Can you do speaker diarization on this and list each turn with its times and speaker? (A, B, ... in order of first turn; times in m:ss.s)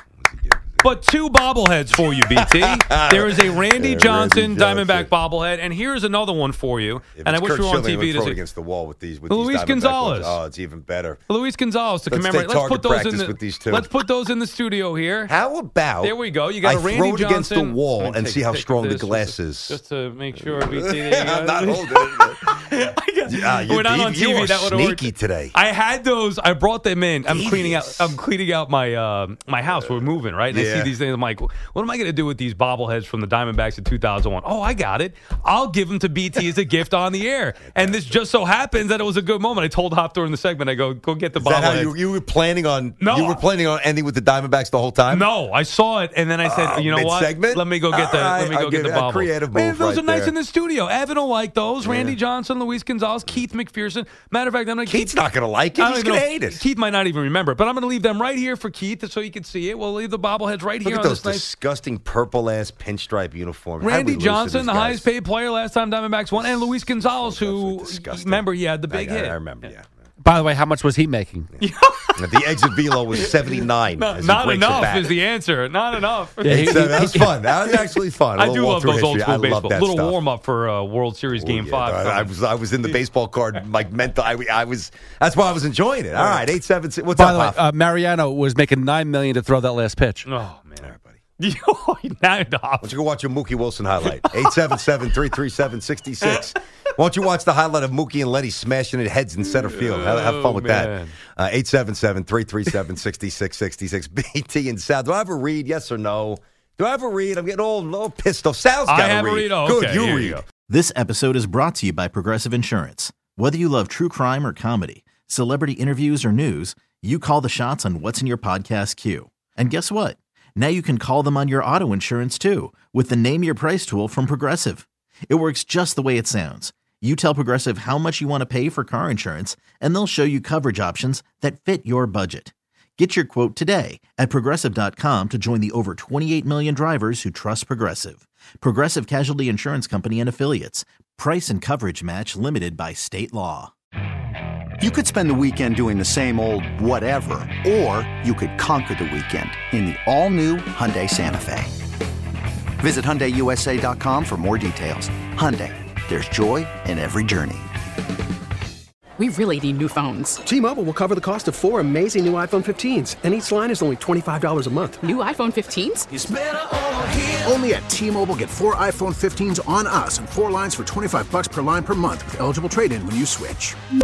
0:00.2-0:00.8 A
0:00.8-0:08.4 B
0:02.2-0:05.1 A
0:07.2-0:11.2 A
0:09.3-0:10.4 B
0:11.3-0:15.3 B
0:12.1-0:13.9 A
0:15.3-0:19.8 A
0:16.0-0:41.9 B
0:20.6-0:22.6 A
0:23.3-0:25.6 A
0:27.2-0:28.2 A
0:30.5-0:30.9 A
0:37.6-0:38.0 A
0:41.4-0:45.3 A
0:43.0-0:43.4 B
0:45.1-0:55.2 B
0:46.4-0:50.3 A
0:51.8-0:52.2 A
0:54.9-0:56.6 A
0:55.8-1:01.5 B
1:00.8-1:05.1 A
1:03.8-1:09.7 B
1:06.4-1:09.9 A
1:10.2-1:11.6 C
1:11.6-1:17.1 B
1:12.2-1:15.1 A
1:16.4-1:17.9 C
1:16.5-1:20.2 A
1:18.4-1:22.3 B
1:21.3-1:27.6 A
1:26.2-1:26.4 C
1:27.1-1:30.3 C
1:30.2-1:32.9 B
1:30.8-1:31.2 A
1:32.8-1:50.4 A
1:34.0-1:34.4 B
1:36.2-1:36.5 B
1:39.5-1:41.1 B
1:48.9-1:50.4 B
1:50.7-2:23.7 D
2:24.8-2:31.7 E
2:32.8-2:37.7 E
2:39.2-2:40.5 F
2:40.5-2:45.0 G
2:45.0-2:46.1 F
2:46.1-2:53.8 H